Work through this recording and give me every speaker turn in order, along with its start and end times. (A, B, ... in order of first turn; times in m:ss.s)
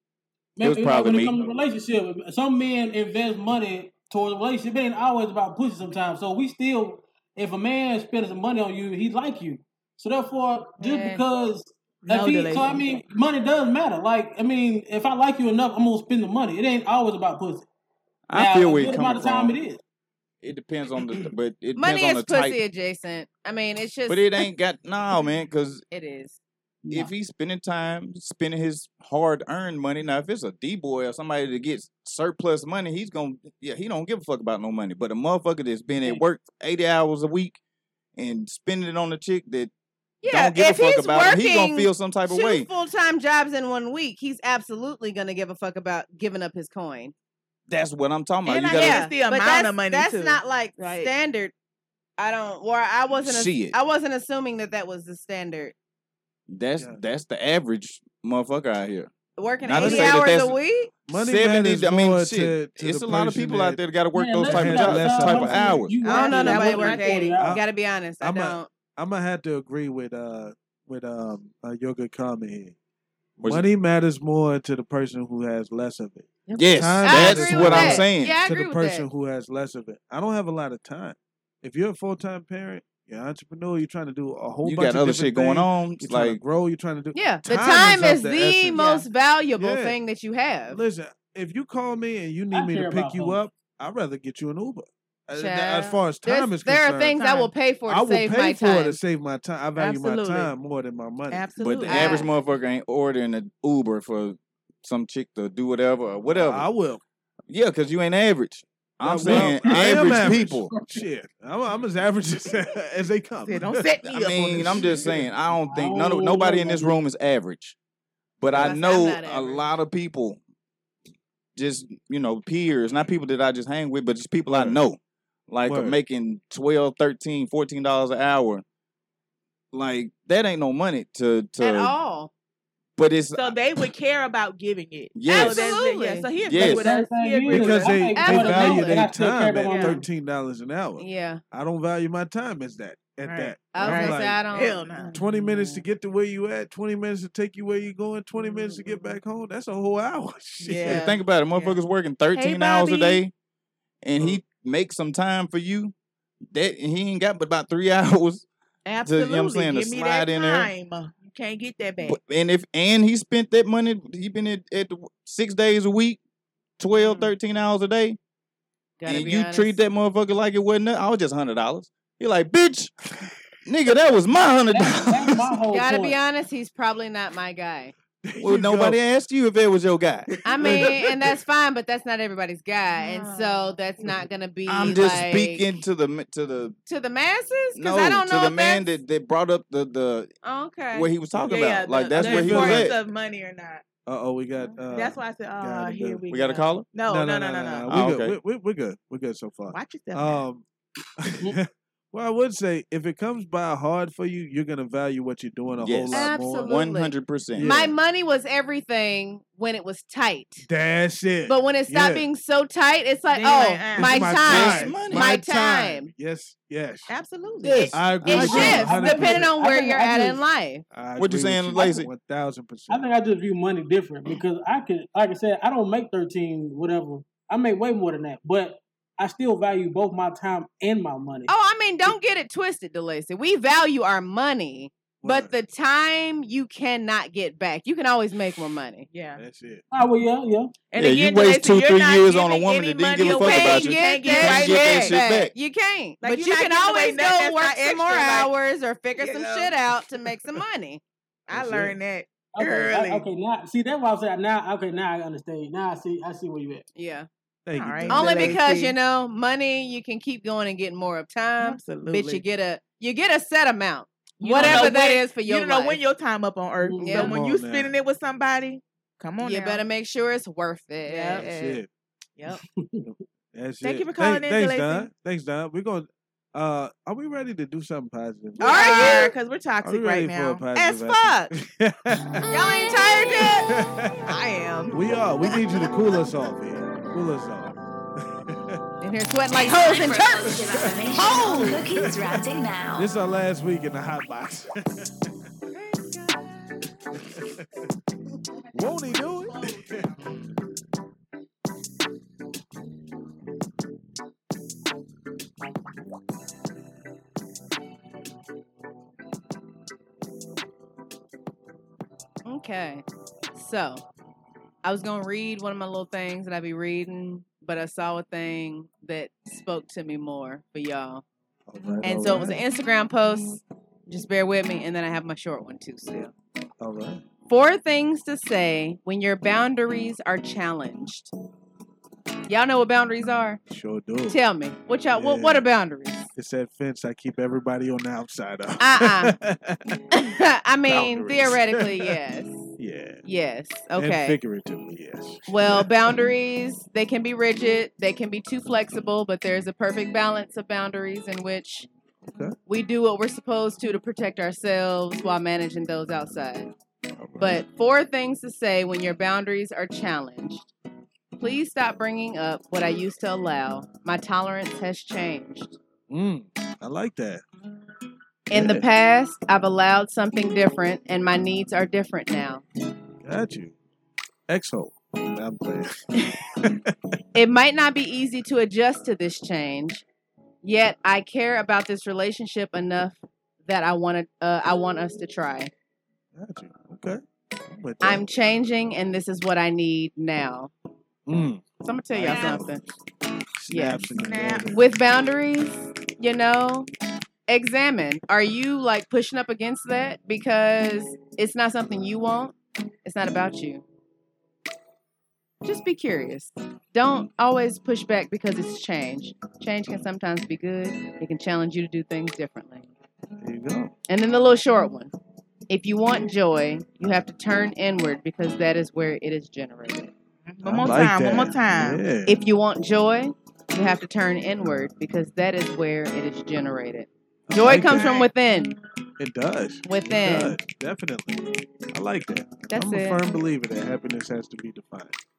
0:00.6-0:17.7 A
0:00.6-0:01.4 B
0:10.8-0:11.2 C
0:12.0-0:12.8 D
0:18.3-0:19.6 B
0:18.3-0:19.8 A
0:20.4-0:22.6 B
0:21.8-0:24.5 C
0:24.1-0:25.8 B
0:25.9-0:26.4 C
0:26.8-0:27.1 A
0:26.9-0:37.6 B
0:38.2-0:39.7 B
0:40.2-0:47.1 C
0:40.2-0:42.7 B
0:47.7-0:49.1 B
0:48.4-0:51.1 D
0:48.7-0:51.5 C
0:52.2-0:55.8 C
0:53.2-0:53.8 B
0:56.5-1:00.6 B
0:59.4-1:01.0 C
0:59.7-1:00.4 E
1:01.1-1:03.8 E
1:01.1-1:06.0 B
1:04.1-1:07.6 A
1:04.4-1:05.8 E
1:06.0-1:08.7 C
1:06.0-1:07.4 D
1:07.4-1:07.7 E
1:08.2-1:12.8 E
1:13.4-1:13.7 B
1:13.4-1:30.0 E
1:16.5-1:19.1 C
1:16.6-1:18.4 B
1:24.6-1:26.4 B
1:27.1-1:30.8 C
1:30.7-1:37.3 E
1:32.5-1:33.4 A
1:35.3-1:39.0 C
1:37.2-1:37.5 D
1:37.9-1:41.5 E
1:39.8-1:40.5 D
1:41.3-1:42.3 D
1:41.6-1:46.7 B
1:41.9-1:42.3 C
1:46.3-1:47.0 E
1:47.5-1:50.7 B
1:49.0-1:55.3 E
1:49.5-1:50.1 A
1:50.7-1:51.0 A
1:53.5-1:55.1 D
1:54.0-1:57.8 B
1:55.5-1:57.0 A
1:58.4-2:00.4 B
1:58.5-1:58.8 E
1:58.5-1:59.7 C
2:01.6-2:08.6 B
2:04.5-2:04.8 E
2:05.7-2:06.0 E
2:09.7-2:12.0 B
2:11.6-2:12.3 C
2:13.0-2:13.6 B
2:13.4-2:18.0 D
2:15.2-2:15.8 B
2:15.3-2:16.3 C
2:16.5-2:16.9 B
2:16.5-2:20.0 A
2:17.5-2:24.5 E
2:18.1-2:19.1 C
2:18.5-2:18.7 B
2:19.7-2:20.0 D
2:21.0-2:21.4 C
2:23.3-2:25.2 D
2:23.7-2:25.7 C
2:25.1-2:31.2 E
2:28.4-2:29.1 C
2:30.6-2:31.8 D
2:30.9-2:33.3 B
2:32.4-2:33.2 D
2:34.0-2:35.9 B
2:36.5-2:38.5 B
2:38.9-2:42.2 D
2:39.1-2:40.7 B
2:42.0-2:46.2 B
2:46.8-2:48.2 B
2:47.0-2:47.3 D
2:49.0-2:49.8 C
2:49.1-2:52.9 B
2:53.7-2:55.5 B
2:54.7-2:56.2 A
2:55.7-2:57.9 C
2:58.2-2:59.0 E
2:58.4-3:00.3 B
3:00.4-3:05.7 C
3:00.5-3:01.2 E
3:03.0-3:03.8 D
3:04.7-3:06.8 B
3:06.9-3:08.9 C
3:07.8-3:10.3 B
3:10.4-3:11.1 C
3:10.9-3:13.0 B
3:11.3-3:11.6 E
3:11.5-3:13.8 D
3:12.1-3:12.9 E
3:14.1-3:16.2 E
3:14.6-3:17.9 D
3:16.3-3:16.9 B
3:17.0-3:20.6 E
3:17.9-3:18.4 B
3:19.7-3:20.4 D
3:21.2-3:26.8 E
3:25.8-3:27.7 B
3:26.1-3:30.7 C
3:27.6-3:28.0 E
3:30.7-3:32.3 E
3:31.5-3:36.1 C
3:33.3-3:34.6 D
3:34.0-3:37.1 E
3:34.4-3:35.4 B
3:37.1-3:38.0 D
3:37.6-3:39.6 E
3:37.8-3:40.8 C
3:38.2-3:38.9 B
3:38.3-3:40.4 A
3:40.9-3:43.0 E
3:41.2-3:42.1 B
3:42.9-3:51.5 A
3:51.5-3:59.1 C
3:55.2-3:55.5 E
3:59.1-3:59.4 D
3:59.4-3:59.8 E
3:59.9-4:00.8 A
4:00.9-4:05.2 D
4:01.0-4:05.5 B
4:03.2-4:11.0 C
4:06.2-4:08.5 D
4:09.2-4:09.7 D
4:11.5-4:13.3 D
4:11.5-4:12.0 E
4:12.6-4:16.9 A
4:17.0-4:17.3 C
4:17.7-4:18.6 E
4:17.8-4:18.9 D
4:18.1-4:26.0 C
4:21.6-4:22.4 D
4:24.4-4:29.8 D
4:24.6-4:25.0 E
4:26.8-4:27.2 A
4:27.0-4:27.4 C
4:27.0-4:27.9 E
4:29.4-4:31.4 C
4:31.0-4:31.8 D
4:31.3-4:31.9 E
4:32.8-4:33.1 A
4:33.1-4:42.5 E
4:33.8-4:35.1 D
4:38.6-4:41.5 D
4:38.6-4:39.3 C
4:42.5-4:43.7 C
4:43.0-4:43.5 D
4:43.3-4:44.2 E
4:44.3-4:45.0 D
4:44.9-4:48.8 E
4:49.0-4:50.5 C
4:49.5-4:53.1 F
4:50.5-4:52.4 E
4:51.1-4:51.8 C
4:53.0-4:55.1 E
4:58.7-5:00.0 E
5:12.4-5:13.0 C
5:13.6-5:14.0 C
5:14.8-5:21.2 C
5:21.7-5:22.6 E
5:22.0-5:26.3 C
5:26.8-5:27.2 E
5:27.5-5:31.3 C
5:32.5-5:33.6 C
5:33.7-5:34.4 E
5:34.3-5:36.3 C
5:35.1-5:35.7 E
5:36.4-5:40.0 E
5:38.8-5:39.4 C
5:40.1-5:42.7 C
5:40.9-5:42.2 E
5:42.8-5:43.2 E
5:43.2-5:44.4 C
5:44.0-5:46.0 E
5:45.5-5:51.9 C
5:52.7-5:56.7 C
5:57.2-5:57.6 E
5:57.4-6:00.7 C
6:01.4-6:05.8 C
6:06.1-6:07.4 E
6:08.5-6:12.6 C
6:08.5-6:08.9 E
6:13.2-6:13.8 E
6:14.5-6:16.9 E
6:17.4-6:20.0 C
6:20.6-6:25.7 C
6:26.4-6:28.3 E
6:28.0-6:30.7 C
6:31.3-6:32.9 E
6:31.8-6:32.8 C
6:32.3-6:32.7 D
6:33.6-6:34.9 E
6:33.7-6:34.1 C
6:34.2-6:34.8 D
6:34.7-6:36.9 C
6:37.5-6:43.8 C
6:45.6-6:52.9 C
6:53.4-6:53.9 E
6:54.1-6:55.1 C
6:55.7-7:00.1 C
7:00.5-7:02.0 D
7:00.6-7:02.4 E
7:02.3-7:08.8 C
7:07.5-7:08.2 E
7:07.8-7:08.3 D
7:09.2-7:15.2 E
7:09.8-7:10.6 C
7:12.7-7:13.4 C